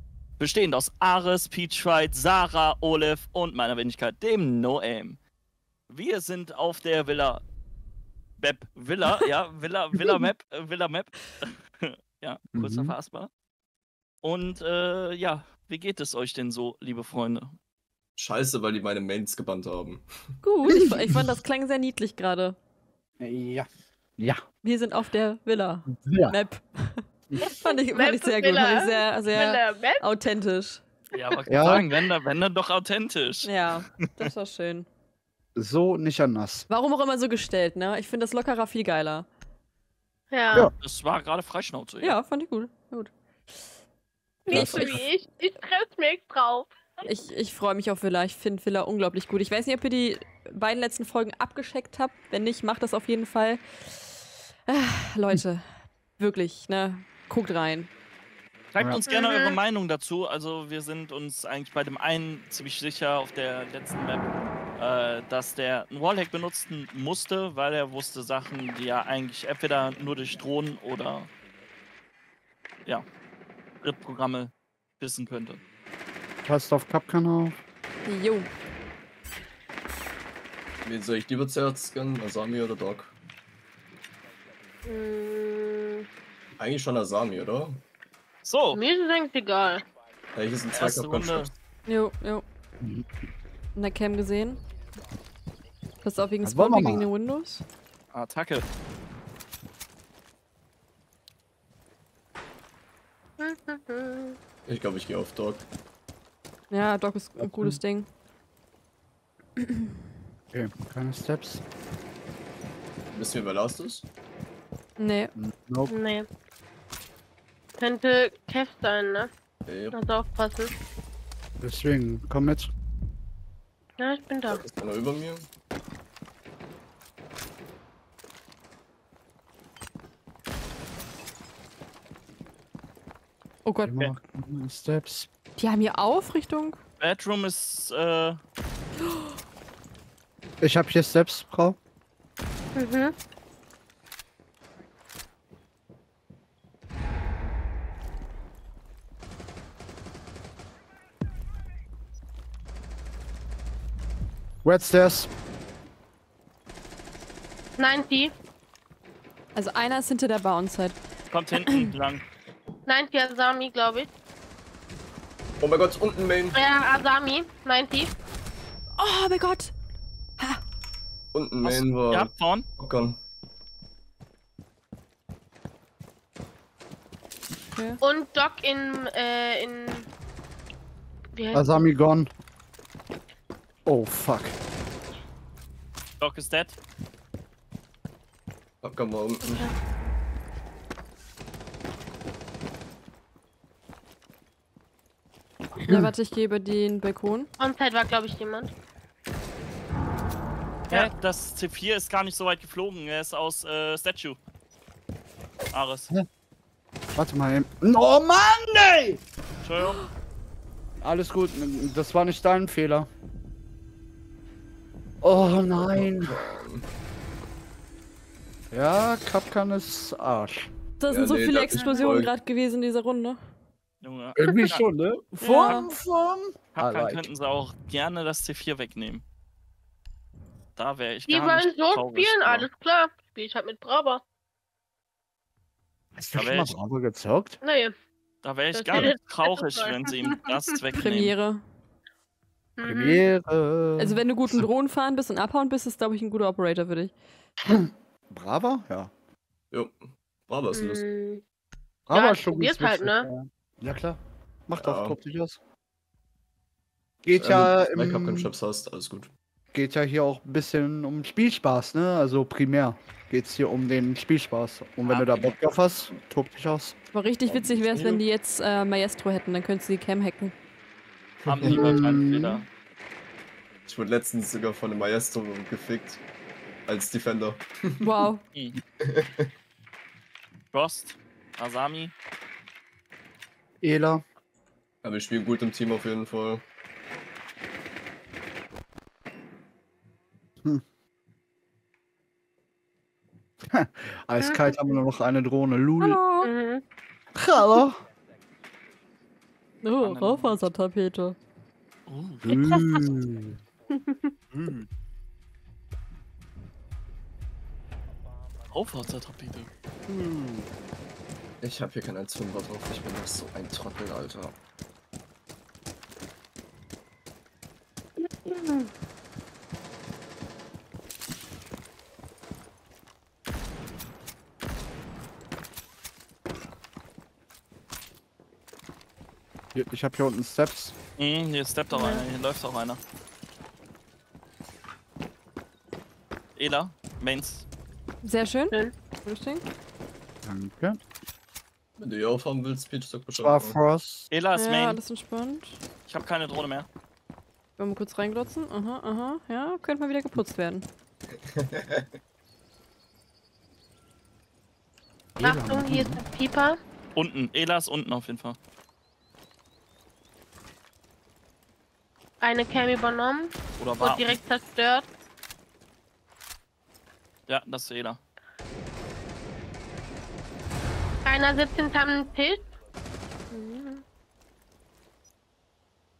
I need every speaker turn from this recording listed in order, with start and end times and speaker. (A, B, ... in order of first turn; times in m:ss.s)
0:00.4-0:05.2 A
0:05.9-0:07.4 A
0:08.4-0:13.3 A
0:12.5-0:12.9 B
0:14.2-0:17.6 A
0:18.2-0:20.0 C
0:20.4-0:22.6 D
0:23.2-0:24.4 B
0:24.6-0:30.8 D
0:25.9-0:26.3 B
0:27.4-0:30.0 E
0:31.1-0:33.5 A
0:31.5-0:31.9 B
0:33.4-0:34.9 D
0:35.6-0:36.7 B
0:36.7-0:39.3 D
0:40.3-0:40.7 E
0:40.8-0:42.2 A
0:42.0-0:43.1 D
0:44.4-0:47.0 E
0:44.5-0:45.0 B
0:44.6-0:45.0 D
0:47.0-0:57.9 D
0:58.7-1:11.3 A
0:59.1-0:59.6 E
1:13.8-1:15.6 A
1:16.5-1:17.6 B
1:18.0-1:18.5 D
1:20.8-1:23.1 C
1:24.8-1:26.0 E
1:26.6-1:27.8 C
1:28.4-1:28.8 A
1:28.7-1:29.8 E
1:30.3-1:31.5 C
1:30.7-1:31.5 A
1:31.8-1:32.4 D
1:32.8-1:33.1 B
1:33.8-1:34.6 D
1:36.0-1:37.6 D
1:36.4-1:37.1 B
1:38.1-1:38.7 A
1:43.4-1:44.4 E
1:44.7-1:45.6 C
1:46.7-1:48.1 D
1:47.4-1:47.8 B
1:49.6-1:49.9 D
1:50.5-1:51.6 B
1:53.1-1:54.0 C
1:55.0-1:55.3 D
1:55.4-1:55.9 B
1:55.9-1:56.3 E
1:57.8-1:59.3 E
1:59.7-2:00.0 C
1:59.9-2:00.7 E
2:01.6-2:02.7 B
2:04.0-2:04.6 E
2:04.5-2:05.5 C
2:13.6-2:14.1 D
2:13.8-2:15.3 B
2:15.6-2:16.8 D
2:17.0-2:18.4 A
2:19.0-2:19.3 D
2:20.6-2:21.8 B
2:22.8-2:23.1 E
2:34.6-2:35.3 B
2:37.8-2:38.3 E
2:39.5-2:41.0 D
2:41.3-2:42.2 A
2:41.6-2:41.9 D
2:42.9-2:44.1 E
2:45.6-2:46.6 C
2:46.5-2:48.1 E
2:49.0-2:49.7 D
2:51.3-2:53.2 C
2:51.6-2:52.7 A
2:57.7-2:58.0 D
2:58.0-3:00.1 E
3:01.3-3:01.8 E
3:01.5-3:02.3 B
3:03.8-3:04.6 B
3:06.2-3:06.8 A
3:08.8-3:09.7 C
3:09.4-3:09.8 E
3:15.8-3:17.5 D
3:17.6-3:18.7 E
3:20.9-3:24.4 A
3:25.7-3:26.1 A
3:27.1-3:29.2 B
3:29.6-3:30.0 A
3:31.0-3:33.1 B
3:35.2-3:36.6 B
3:35.5-3:36.9 C
3:38.7-3:40.7 B
3:41.0-3:43.4 D
3:41.1-3:42.3 C
3:41.7-3:42.2 E
3:44.0-3:44.9 A
3:44.4-3:47.3 B
3:45.4-3:45.8 E
3:46.8-3:49.2 A
3:50.8-3:52.7 A
3:51.3-3:54.2 E
3:56.1-3:57.6 B
3:56.3-3:56.8 A
3:57.6-3:57.9 E
3:58.4-4:01.3 A
3:58.7-4:00.4 E
4:00.9-4:01.6 D
4:02.8-4:03.2 E
4:02.8-4:04.6 B
4:04.0-4:07.1 D
4:07.7-4:09.1 B
4:09.7-4:11.0 C
4:10.7-4:11.4 E
4:12.1-4:15.6 B
4:12.1-4:13.3 E
4:14.8-4:15.2 C
4:17.2-4:18.5 B
4:17.4-4:19.3 C
4:19.7-4:27.0 B
4:25.0-4:25.6 A
4:27.1-4:30.5 D
4:27.5-4:28.2 C
4:31.4-4:32.0 C
4:31.5-4:32.7 A
4:31.6-4:32.6 B
4:33.9-4:36.2 C
4:36.9-4:37.9 C
4:38.0-4:38.4 D
4:38.5-4:38.8 A
4:39.0-4:39.5 C
4:40.7-4:42.1 A
4:43.8-4:44.2 B
4:45.0-4:46.7 C
4:53.7-4:56.2 B
4:54.4-4:54.8 E
4:56.0-4:56.5 D
4:56.4-4:56.8 E
4:57.4-4:58.0 B
4:59.8-5:01.4 D
5:00.0-5:00.7 A
5:02.1-5:02.6 A
5:02.4-5:03.6 B
5:03.9-5:04.3 E
5:04.5-5:04.8 B
5:08.7-5:09.7 A
5:10.1-5:10.7 B
5:11.6-5:14.6 C
5:18.2-5:18.9 E
5:29.7-5:31.0 B
5:31.2-5:33.0 A
5:31.9-5:32.2 E
5:36.6-5:37.7 A
5:38.2-5:39.6 D
5:40.4-5:41.0 B
5:42.0-5:43.8 C
5:43.4-5:44.3 B
5:44.3-5:45.0 A
5:44.5-5:45.8 D
5:46.1-5:46.9 A
5:47.8-5:50.8 D
5:51.5-5:52.1 C
5:55.4-5:56.2 B
5:55.4-5:56.8 E
5:57.2-5:58.6 A
6:02.4-6:05.1 E
6:03.8-6:04.4 A
6:07.5-6:08.2 A
6:11.2-6:12.7 E
6:13.5-6:14.0 E